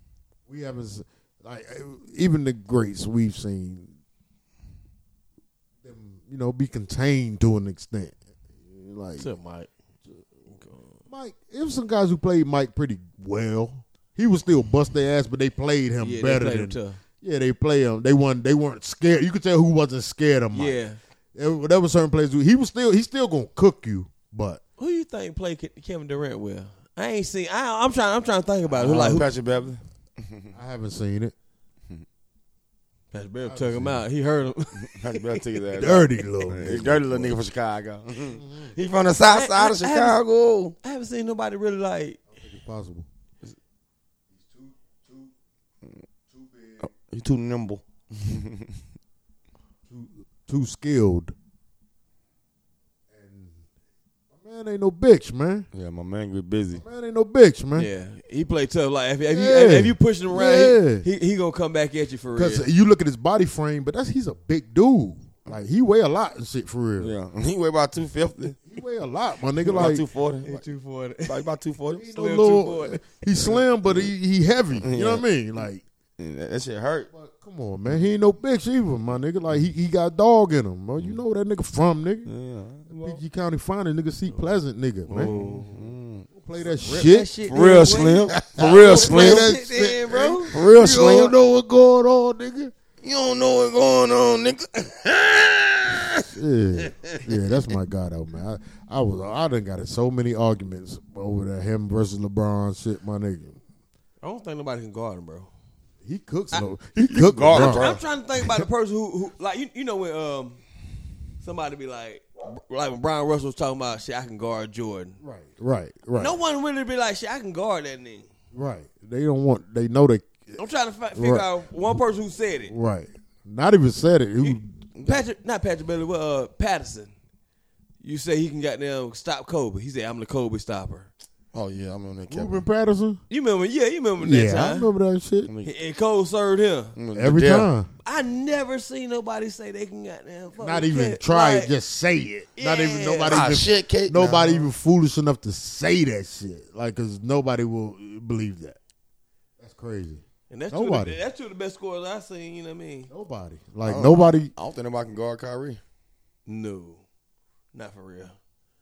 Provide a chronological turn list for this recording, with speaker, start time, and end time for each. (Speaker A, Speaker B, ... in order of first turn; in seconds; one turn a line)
Speaker A: 0.5-3.9
Speaker A: 5.8-9.3
Speaker B: 9.2-9.7
Speaker B: 10.5-11.0
Speaker A: 11.1-20.8
Speaker B: 16.0-17.0
Speaker B: 20.5-21.0
Speaker A: 21.4-24.6
Speaker B: 24.8-29.3
Speaker C: 28.8-30.6
Speaker A: 28.8-29.3
Speaker A: 30.5-31.4
Speaker B: 33.1-35.4
Speaker A: 33.5-34.0
Speaker C: 34.8-40.8
Speaker A: 35.7-37.4
Speaker A: 38.3-38.8
Speaker B: 39.2-40.2
Speaker B: 40.8-42.2
Speaker A: 42.3-43.1
Speaker A: 44.3-45.3
Speaker A: 46.3-46.9
Speaker C: 46.8-48.8
Speaker A: 49.9-51.3
Speaker A: 53.1-53.7
Speaker A: 54.3-55.7
Speaker C: 55.7-56.8
Speaker A: 56.7-57.9
Speaker B: 57.8-62.7
Speaker A: 59.3-61.1
Speaker A: 62.4-67.1
Speaker C: 67.0-68.6
Speaker A: 68.7-70.0
Speaker C: 69.7-70.6
Speaker B: 70.4-71.4
Speaker C: 71.3-72.1
Speaker A: 71.9-75.8
Speaker B: 72.1-73.0
Speaker C: 73.5-74.1
Speaker C: 74.8-75.3
Speaker C: 76.2-77.1
Speaker A: 77.1-82.3
Speaker C: 82.3-83.2
Speaker A: 82.9-85.3
Speaker B: 84.3-84.6
Speaker B: 85.1-85.9
Speaker C: 85.2-86.3
Speaker A: 86.3-92.7
Speaker B: 86.7-90.5
Speaker C: 87.5-89.5
Speaker C: 90.5-91.3
Speaker C: 93.0-96.3
Speaker A: 96.2-103.6
Speaker C: 96.8-97.3
Speaker B: 104.2-105.5
Speaker A: 106.0-108.6
Speaker C: 107.0-108.0
Speaker B: 107.5-110.6
Speaker B: 111.4-115.2
Speaker A: 115.2-116.4
Speaker B: 116.2-118.3
Speaker A: 118.5-120.6
Speaker B: 120.6-122.7
Speaker A: 121.1-121.5
Speaker A: 122.7-124.8
Speaker B: 124.4-127.1
Speaker C: 125.0-125.2
Speaker B: 128.0-131.1
Speaker C: 131.5-132.7
Speaker A: 132.3-133.2
Speaker B: 133.3-134.9
Speaker A: 134.2-135.5
Speaker C: 135.5-135.7
Speaker B: 135.7-136.9
Speaker C: 137.0-137.7
Speaker A: 137.1-137.9
Speaker B: 138.1-141.7
Speaker A: 140.6-148.8
Speaker B: 142.6-143.4
Speaker C: 143.3-144.7
Speaker A: 149.6-151.2
Speaker B: 150.5-153.1
Speaker A: 153.1-154.5
Speaker C: 153.8-155.8
Speaker B: 156.5-157.0
Speaker B: 157.7-158.4